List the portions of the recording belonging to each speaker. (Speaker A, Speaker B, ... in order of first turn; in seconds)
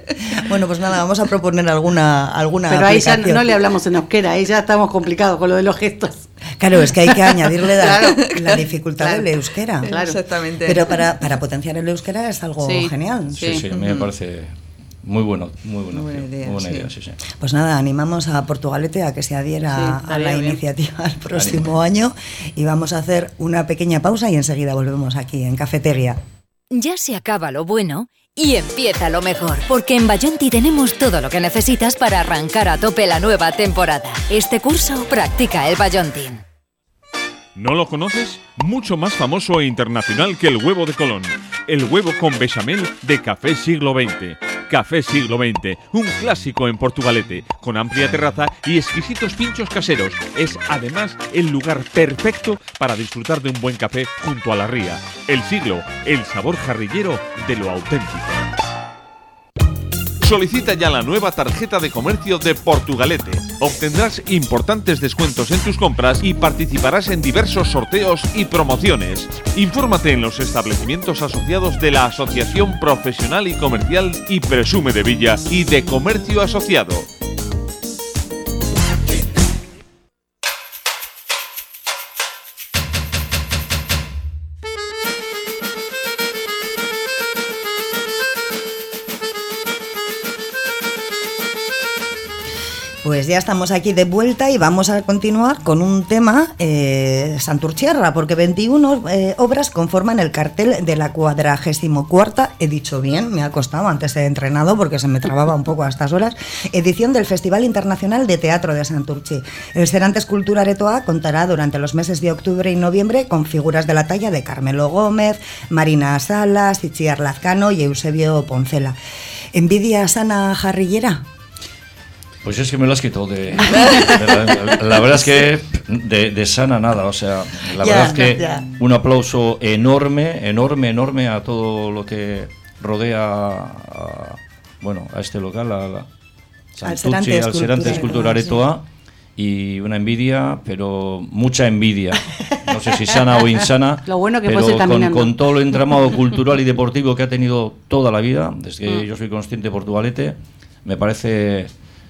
Speaker A: 0.2-3.5, 6.6-9.9, 10.7-13.7, 17.4-26.2, 93.0-119.0, 119.5-121.2, 127.8-128.7, 136.8-138.6
Speaker B: 2.7-6.3, 7.1-8.2, 9.0-9.3, 9.8-10.2, 12.6-13.6, 19.7-20.6, 144.1-145.3
Speaker C: 8.3-8.6, 9.8-10.9, 13.7-14.1, 15.9-16.9
Speaker D: 13.3-17.2, 21.3-21.7, 122.4-136.1, 136.8-138.9, 139.4-151.7
Speaker E: 26.7-36.4
Speaker F: 37.6-58.5, 60.2-77.1